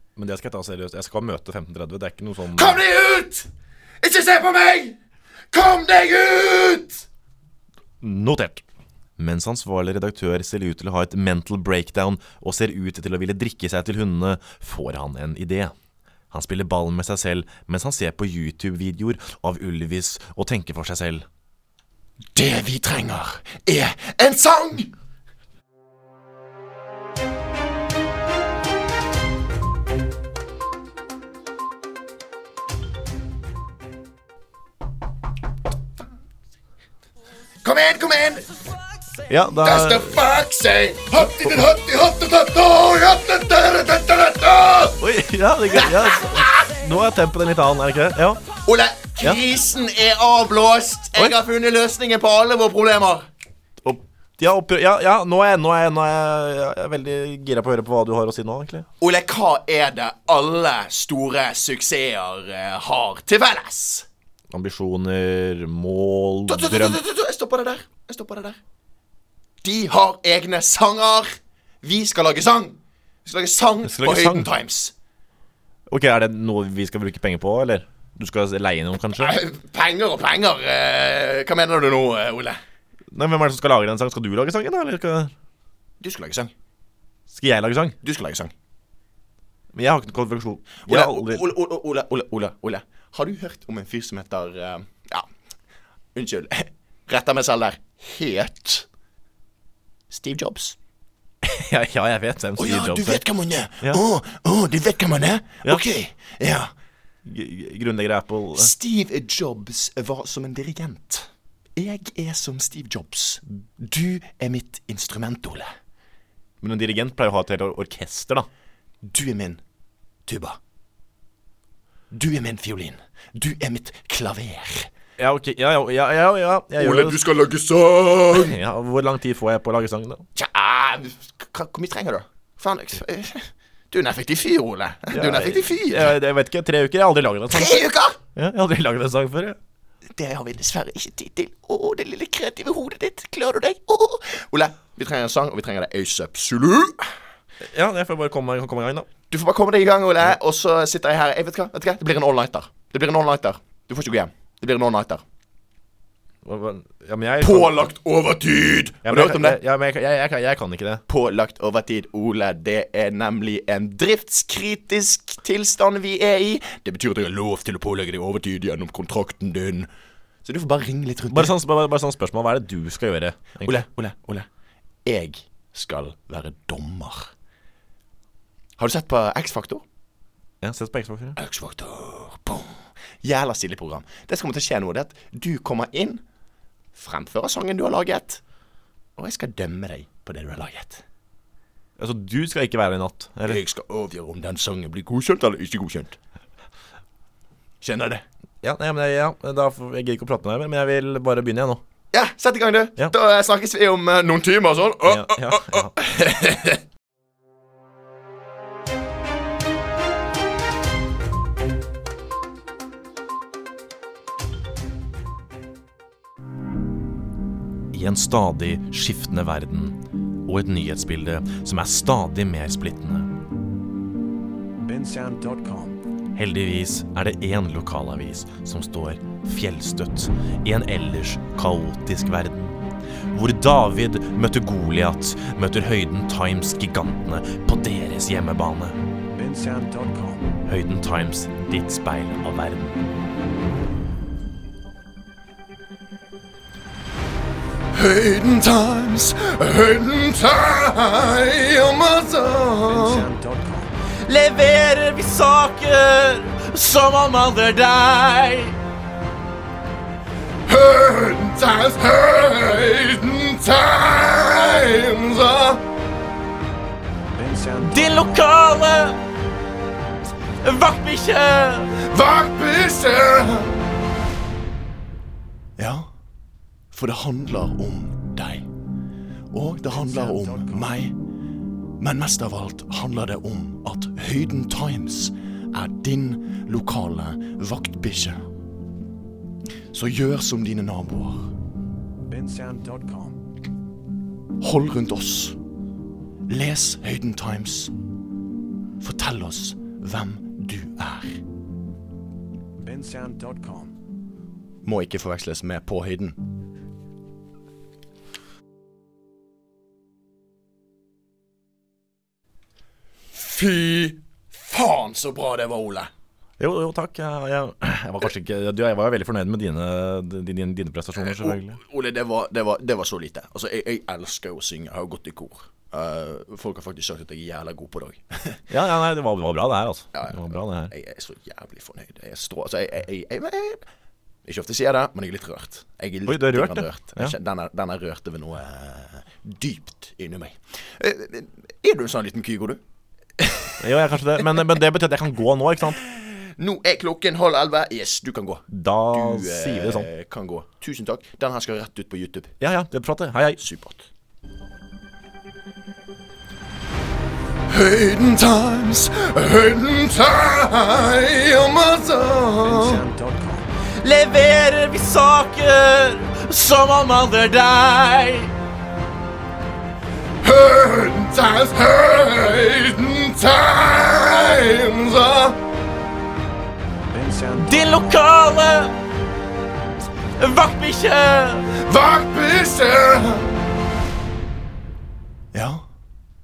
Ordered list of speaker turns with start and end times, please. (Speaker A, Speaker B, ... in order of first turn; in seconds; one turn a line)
Speaker A: 0.2-2.8
Speaker B: 2.5-3.5
Speaker B: 4.0-5.0
Speaker B: 5.5-7.1
Speaker A: 8.0-8.6
Speaker A: 9.2-15.7
Speaker A: 16.3-21.2
Speaker B: 22.4-24.9
Speaker B: 37.6-38.5
Speaker A: 39.3-40.2
Speaker B: 39.6-45.0
Speaker A: 45.0-48.4
Speaker B: 45.7-46.5
Speaker B: 48.6-53.2
Speaker A: 53.8-58.9
Speaker B: 59.0-64.1
Speaker A: 64.5-67.0
Speaker B: 66.5-68.6
Speaker B: 69.6-74.9
Speaker A: 73.8-74.5
Speaker A: 75.9-79.4
Speaker B: 79.2-82.6
Speaker A: 83.1-85.3
Speaker B: 86.0-86.5
Speaker A: 87.3-88.0
Speaker B: 88.0-88.5
Speaker A: 89.7-91.5
Speaker B: 90.8-95.2
Speaker B: 96.1-98.9
Speaker B: 100.1-100.8
Speaker A: 101.4-103.2
Speaker B: 102.6-106.7
Speaker A: 107.2-108.7
Speaker B: 108.5-115.7
Speaker A: 116.6-118.5
Speaker B: 119.0-119.6
Speaker B: 120.2-120.6
Speaker B: 122.1-124.9
Speaker A: 125.2-127.2
Speaker B: 126.8-128.6
Speaker A: 128.3-130.2
Speaker B: 130.3-136.1
Speaker A: 135.1-139.6
Speaker B: 137.5-138.2
Speaker B: 140.2-147.1
Speaker A: 147.7-149.1
Speaker B: 149.3-155.2
Speaker A: 156.4-157.9
Speaker B: 157.4-159.6
Speaker A: 159.1-161.0
Speaker B: 161.1-169.9
Speaker B: 170.4-171.6
Speaker A: 171.3-173.8
Speaker B: 173.6-174.5
Speaker B: 175.1-177.3
Speaker B: 178.8-179.8
Speaker A: 180.6-181.4
Speaker B: 181.4-186.2
Speaker B: 186.9-188.4
Speaker B: 189.2-191.0
Speaker A: 192.0-193.6
Speaker B: 193.5-196.2
Speaker B: 197.8-198.2
Speaker A: 198.6-201.8
Speaker B: 202.1-206.8
Speaker A: 205.1-206.0
Speaker A: 217.9-223.3
Speaker C: 224.8-226.0
Speaker A: 226.3-232.8
Speaker A: 233.3-239.0
Speaker C: 239.3-240.5
Speaker A: 240.6-243.1
Speaker B: 247.9-253.2
Speaker C: 252.9-253.9
Speaker A: 254.2-258.8
Speaker B: 260.7-265.8
Speaker C: 267.3-268.1
Speaker A: 267.8-269.2
Speaker A: 270.6-271.9
Speaker B: 272.0-273.8
Speaker B: 275.8-276.1
Speaker B: 276.9-278.7
Speaker B: 279.5-281.2
Speaker C: 279.9-281.0
Speaker B: 282.0-288.4
Speaker B: 289.9-291.5
Speaker C: 292.3-293.4
Speaker B: 294.6-295.6
Speaker B: 296.5-297.9
Speaker B: 299.0-301.4
Speaker C: 302.8-303.9
Speaker B: 304.8-306.4
Speaker B: 313.3-316.1
Speaker A: 316.6-321.8
Speaker B: 321.2-328.6
Speaker A: 328.7-330.9
Speaker B: 330.1-333.8
Speaker B: 334.4-342.8
Speaker A: 336.2-337.3
Speaker B: 343.4-343.7
Speaker A: 343.8-346.0
Speaker B: 346.0-352.5
Speaker A: 348.7-350.1
Speaker A: 352.6-353.6
Speaker B: 353.6-354.1
Speaker B: 357.7-363.0
Speaker C: 362.6-363.7
Speaker A: 364.0-368.5
Speaker B: 370.4-375.6
Speaker C: 377.1-377.9
Speaker A: 377.6-379.0
Speaker A: 380.4-381.7
Speaker B: 381.7-383.6
Speaker B: 385.5-385.9